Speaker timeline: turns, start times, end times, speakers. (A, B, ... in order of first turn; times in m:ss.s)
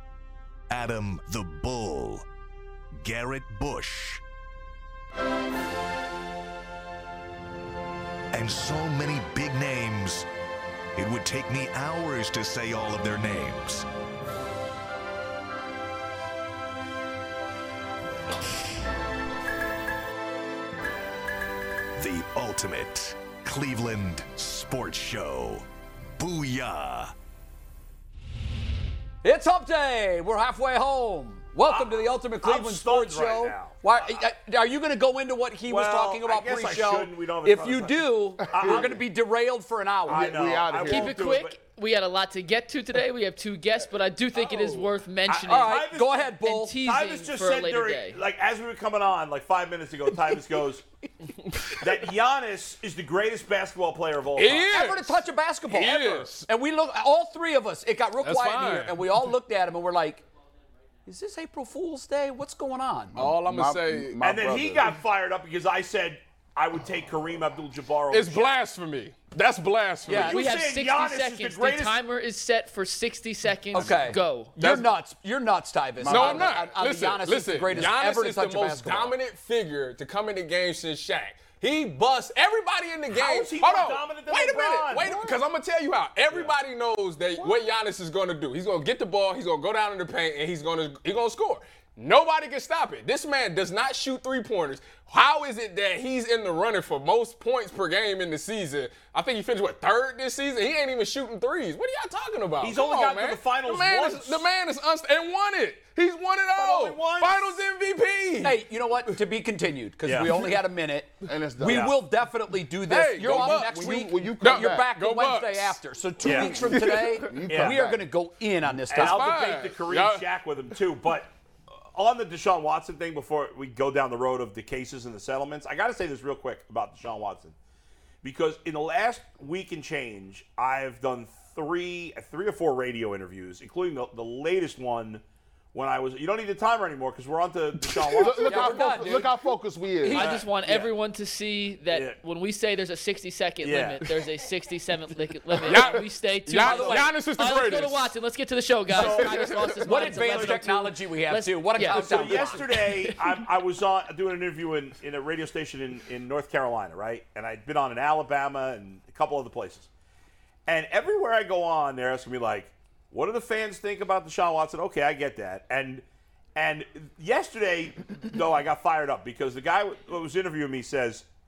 0:00.7-0:02.2 A
0:03.0-0:04.2 A
0:08.3-0:10.3 A
0:11.0-0:13.8 A
0:22.0-0:27.1 A
0:29.2-0:40.3 B
0:31.7-0:34.2 C
0:35.7-0:39.0 C
0:38.5-0:38.9 D
0:40.1-0:41.1 D
0:40.1-0:41.6 C
0:40.8-0:45.8 E
0:44.4-0:50.8 C
0:45.4-0:46.7 B
0:46.4-0:48.2 E
0:51.7-0:54.8 C
0:54.4-0:56.5 F
0:54.7-1:00.2 B
0:58.2-0:59.3 F
1:01.0-1:03.2 B
1:03.1-1:05.0 D
1:03.2-1:04.1 F
1:04.2-1:08.5 C
1:08.1-1:10.4 F
1:10.1-1:10.4 B
1:10.1-1:12.0 C
1:10.2-1:14.5 E
1:13.7-1:19.1 B
1:14.6-1:14.9 F
1:16.0-1:16.7 D
1:16.1-1:48.6 F
1:23.1-1:25.3 C
1:42.6-1:44.5 C
1:46.5-1:47.6 C
1:48.4-1:59.6 B
1:50.0-1:50.3 C
1:51.2-1:51.9 D
1:51.7-1:52.0 C
1:52.8-1:57.3 F
1:53.2-1:54.9 D
1:56.2-1:56.6 C
1:56.3-1:58.1 D
1:57.5-1:57.8 C
1:58.9-2:01.3 C
1:58.9-2:00.2 F
2:01.8-2:07.5 C
2:08.2-2:15.2 C
2:15.7-2:19.1 C
2:18.1-2:20.4 D
2:18.4-2:19.3 B
2:20.0-2:33.4 E
2:20.1-2:20.9 C
2:21.9-2:22.2 C
2:23.6-2:24.0 C
2:25.5-2:28.1 F
2:26.6-2:26.9 B
2:26.6-2:27.1 C
2:28.9-2:30.6 C
2:29.0-2:29.6 F
2:29.8-2:32.7 B
2:31.8-2:39.9 C
2:40.7-2:46.0 C
2:46.6-2:51.2 C